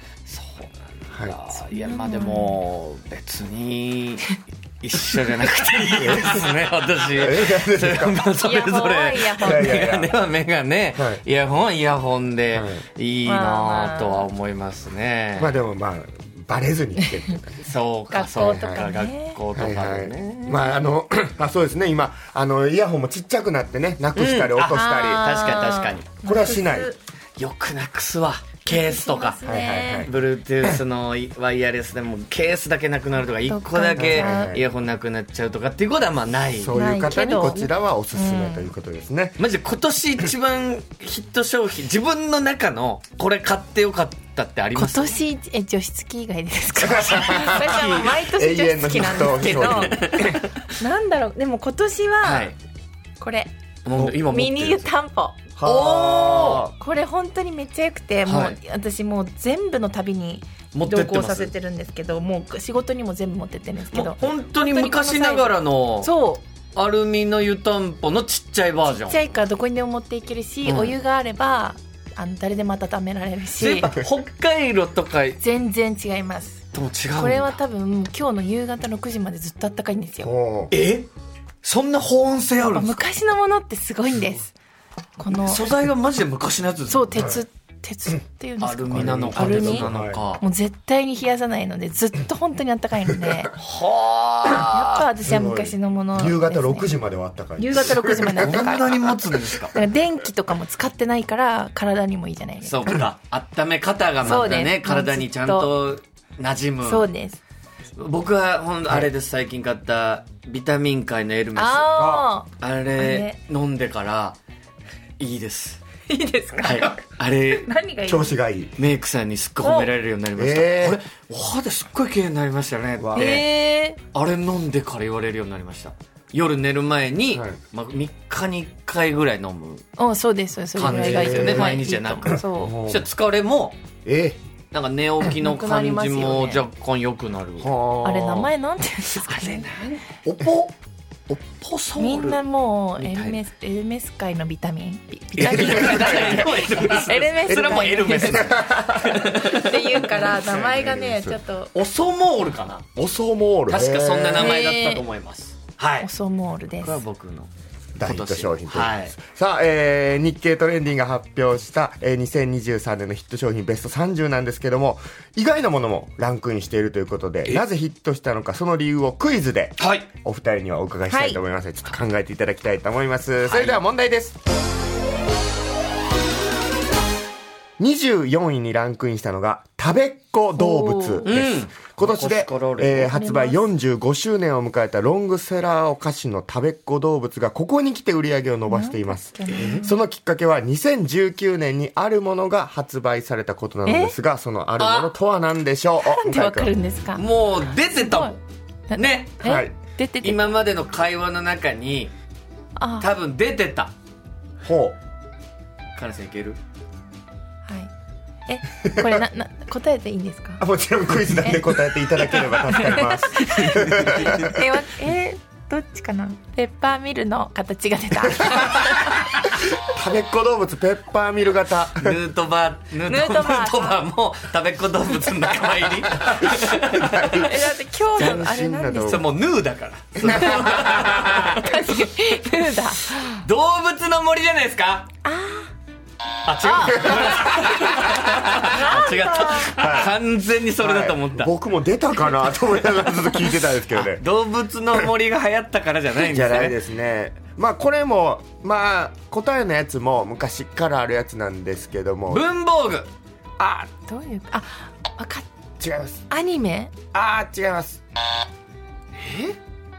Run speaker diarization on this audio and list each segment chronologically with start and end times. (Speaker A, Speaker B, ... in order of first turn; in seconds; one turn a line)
Speaker A: 0.3-15.6
Speaker B: 1.1-1.4
Speaker C: 1.6-2.6
Speaker B: 6.0-6.6
Speaker B: 7.1-8.2
Speaker C: 8.4-9.8
Speaker B: 9.4-10.1
Speaker B: 10.9-11.2
Speaker B: 12.5-12.8
Speaker C: 13.2-14.3
Speaker B: 15.4-17.7
Speaker A: 17.6-20.7
Speaker C: 18.1-19.4
Speaker B: 18.4-18.8
Speaker B: 19.6-25.3
Speaker A: 24.1-26.2
Speaker C: 24.7-27.0
Speaker B: 26.2-26.9
Speaker A: 27.4-29.4
Speaker C: 28.6-30.1
Speaker B: 29.4-30.8
Speaker A: 30.0-37.6
Speaker C: 33.5-34.5
Speaker B: 34.0-34.6
Speaker B: 36.5-39.4
Speaker C: 36.7-38.7
Speaker A: 39.4-45.2
Speaker C: 44.7-52.5
Speaker B: 46.8-50.4
Speaker A: 49.2-50.5
Speaker A: 52.2-52.5
Speaker C: 53.2-53.5
Speaker A: 53.8-54.9
Speaker C: 54.3-66.4
Speaker B: 55.6-56.7
Speaker A: 55.6-56.6
Speaker A: 58.2-58.5
Speaker A: 60.7-61.5
Speaker A: 63.9-66.1
Speaker A: 66.7-69.2
Speaker C: 69.0-73.9
Speaker A: 70.7-71.0
Speaker A: 73.6-75.4
Speaker C: 75.4-80.3
Speaker A: 76.7-77.6
Speaker B: 80.2-80.7
Speaker A: 80.7-81.1
Speaker A: 81.6-83.0
Speaker C: 82.7-84.5
Speaker C: 85.2-85.7
Speaker A: 85.3-87.3
Speaker C: 86.9-93.5
Speaker A: 88.6-90.4
Speaker B: 88.9-90.2
Speaker A: 93.6-95.1
Speaker C: 94.6-96.9
Speaker B: 95.2-98.8
Speaker C: 97.6-99.2
Speaker A: 98.4-99.8
Speaker C: 99.7-102.9
Speaker A: 102.6-107.1
Speaker C: 104.2-105.7
Speaker C: 106.8-107.4
Speaker A: 108.0-114.4
Speaker C: 111.5-113.4
Speaker B: 112.0-112.3
Speaker A: 115.2-115.8
Speaker C: 116.1-118.3
Speaker A: 116.6-117.7
Speaker B: 118.0-118.8
Speaker A: 118.8-123.5
Speaker C: 119.6-119.9
Speaker B: 120.3-121.0
Speaker B: 123.0-123.4
Speaker C: 123.2-124.0
Speaker A: 124.1-129.8
Speaker B: 127.3-127.6
Speaker C: 130.0-132.8
Speaker A: 130.7-133.8
Speaker B: 130.8-131.8
Speaker B: 132.5-133.1
Speaker B: 134.0-134.4
Speaker A: 134.7-137.8
Speaker C: 135.3-136.6
Speaker B: 137.6-138.5
Speaker C: 138.0-139.7
Speaker A: 139.2-140.7
Speaker A: 141.3-142.4
Speaker C: 142.0-151.7
Speaker A: 143.0-143.4
Speaker A: 145.4-150.0
Speaker B: 145.4-149.4
Speaker B: 150.1-151.4
Speaker A: 151.7-152.9
Speaker B: 152.9-154.5
Speaker A: 153.7-156.1
Speaker C: 154.4-155.0
Speaker C: 156.0-157.0
Speaker A: 156.8-157.5
Speaker B: 157.9-174.4
Speaker A: 158.0-159.1
Speaker A: 169.8-170.1
Speaker C: 171.1-171.4
Speaker A: 173.4-173.8
Speaker B: 177.8-196.7
Speaker C: 180.6-181.3
Speaker A: 181.2-183.2
Speaker C: 183.1-183.6
Speaker C: 188.7-189.9
Speaker A: 189.5-189.8
Speaker C: 193.8-194.1
Speaker A: 194.8-195.1
Speaker C: 196.0-197.3
Speaker A: 197.2-198.4
Speaker C: 197.8-198.3
Speaker C: 198.9-200.5
Speaker A: 198.9-199.4
Speaker B: 199.4-199.7
Speaker A: 200.2-202.1
Speaker C: 202.8-203.1
Speaker A: 203.0-203.9
Speaker B: 204.6-204.9
Speaker A: 205.9-206.6
Speaker C: 208.5-210.6
Speaker B: 208.8-209.2
Speaker B: 210.6-214.6
Speaker C: 211.3-211.6
Speaker C: 212.2-219.3
Speaker A: 213.7-214.4
Speaker B: 218.4-218.9
Speaker B: 219.7-222.2
Speaker A: 221.9-227.5
Speaker C: 223.1-224.0
Speaker B: 226.2-227.5
Speaker C: 227.3-229.2
Speaker B: 228.1-229.2
Speaker A: 228.2-231.8
Speaker B: 230.2-231.3
Speaker C: 230.2-233.4
Speaker A: 233.3-235.1
Speaker C: 235.2-235.7
Speaker A: 236.4-241.5
Speaker C: 236.6-239.7
Speaker B: 237.1-238.7
Speaker B: 239.7-240.1
Speaker B: 240.8-244.2
Speaker A: 243.2-246.8
Speaker B: 246.2-252.4
Speaker A: 252.3-253.1
Speaker B: 253.6-253.9
Speaker C: 254.0-255.5
Speaker B: 255.8-256.2
Speaker C: 256.3-256.9
Speaker B: 257.1-258.0
Speaker A: 259.1-259.6